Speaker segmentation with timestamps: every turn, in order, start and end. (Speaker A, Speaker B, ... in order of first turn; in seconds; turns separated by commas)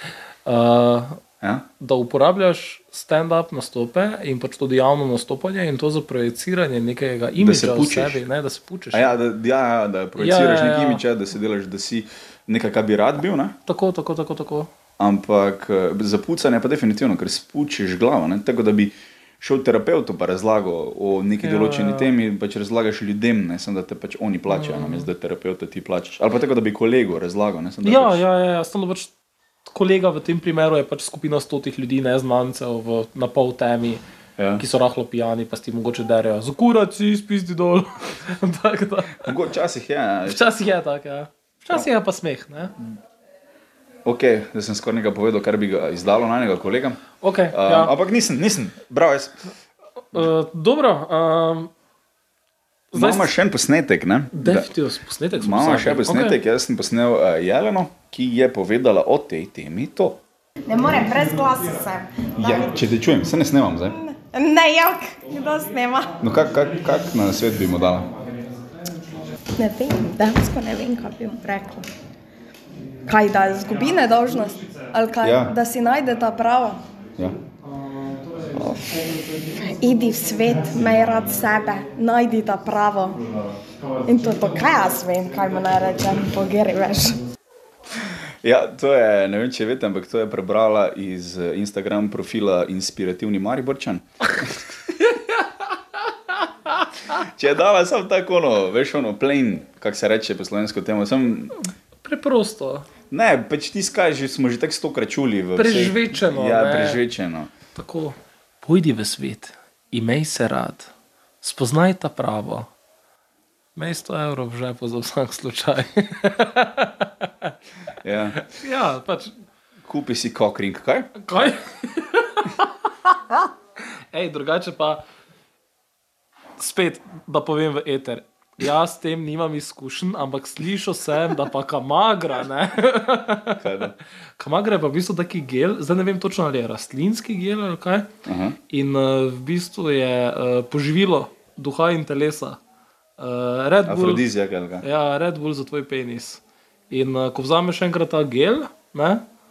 Speaker A: 0.5-1.2, Speaker B: 1.4-1.6, Speaker A: 1.8-9.1, Speaker B: 7.4-8.2, Speaker B: 8.9-13.6, Speaker A: 10.2-11.0, Speaker A: 13.7-14.7, Speaker B: 15.0-28.2, Speaker A: 21.4-22.1, Speaker A: 24.5-25.1, Speaker A: 27.8-29.1, Speaker A: 29.7-34.0, Speaker B: 34.4-34.6, Speaker A: 34.6-39.3, Speaker B: 39.1-40.4, Speaker A: 40.3-42.7, Speaker B: 44.0-49.4, Speaker A: 47.2-47.9, Speaker A: 50.1-51.7, Speaker A: 52.9-53.3, Speaker B: 52.9-54.7, Speaker A: 54.3-56.4, Speaker B: 55.4-60.2, Speaker C: 60.7-62.8, Speaker B: 62.4-64.0, Speaker C: 63.9-66.1, Speaker B: 66.2-68.1, Speaker A: 66.4-69.3, Speaker C: 69.5-71.9, Speaker C: 73.0-76.8, Speaker B: 75.2-75.5, Speaker A: 77.6-79.9, Speaker C: 78.5-79.0, Speaker C: 79.6-83.2, Speaker C: 84.0-87.2, Speaker B: 88.4-94.6, Speaker A: 95.0-96.4, Speaker B: 97.1-101.6, Speaker A: 102.0-102.9, Speaker B: 103.1-107.5, Speaker A: 105.5-107.0, Speaker A: 107.7-112.7, Speaker A: 113.8-117.5, Speaker B: 118.0-118.5, Speaker A: 118.4-119.3, Speaker B: 119.8-121.1, Speaker A: 121.2-122.7, Speaker A: 124.1-125.0, Speaker A: 126.6-133.8, Speaker B: 133.6-133.9, Speaker A: 134.4-138.1, Speaker B: 138.2-138.6, Speaker A: 138.7-142.6, Speaker A: 143.2-144.2, Speaker B: 143.8-144.8, Speaker A: 144.8-149.2